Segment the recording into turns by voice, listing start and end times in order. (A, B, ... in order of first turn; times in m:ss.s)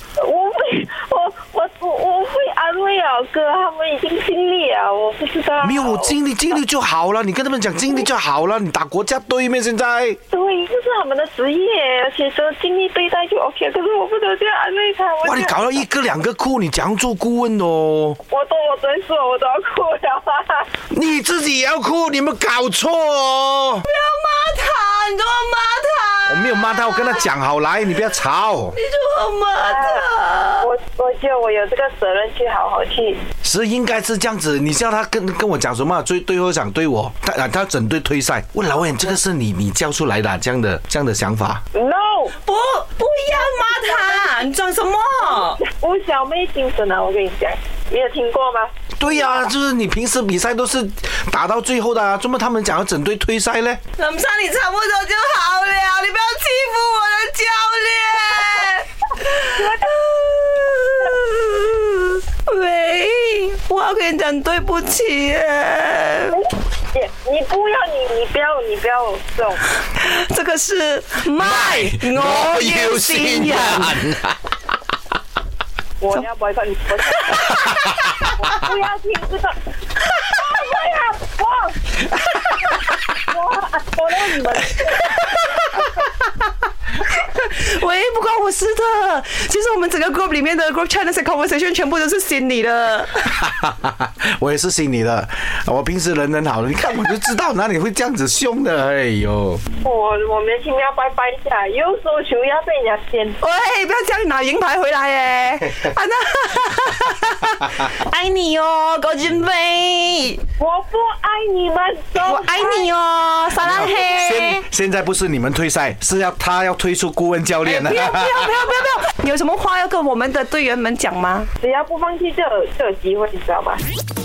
0:00.2-0:06.2 A
0:05.6-0:10.2 B
0:10.3-0:15.8 A
0:15.2-0:18.2 B
0:18.3-0:20.7 A
0:20.9-0:23.9 B
0:23.8-0:27.3 C
0:26.3-0:28.8 B
0:28.7-0:30.7 C
0:29.6-0:33.2 A
0:33.4-0:41.6 B
0:41.7-0:42.4 A
0:42.4-0:45.6 C
0:43.3-0:44.4 A
0:45.2-0:49.4 A
0:49.0-0:53.8 B
0:54.0-1:06.4 C
0:59.6-0:59.9 A
1:06.3-1:09.6 A
1:09.9-1:14.1 C
1:11.4-1:14.4 B
1:16.0-1:17.7 A
1:17.2-1:18.0 C
1:17.6-1:18.1 B
1:18.2-1:19.5 A
1:20.3-1:21.8 A
1:22.6-1:25.7 A
1:25.2-1:25.9 C
1:27.0-1:33.3 C
1:33.4-1:39.6 B
1:39.8-1:43.4 A
1:43.4-1:50.4 C
1:50.6-1:52.9 A
1:52.2-1:54.6 C
1:53.6-1:58.6 B
1:57.6-2:01.5 C
2:01.6-2:03.8 A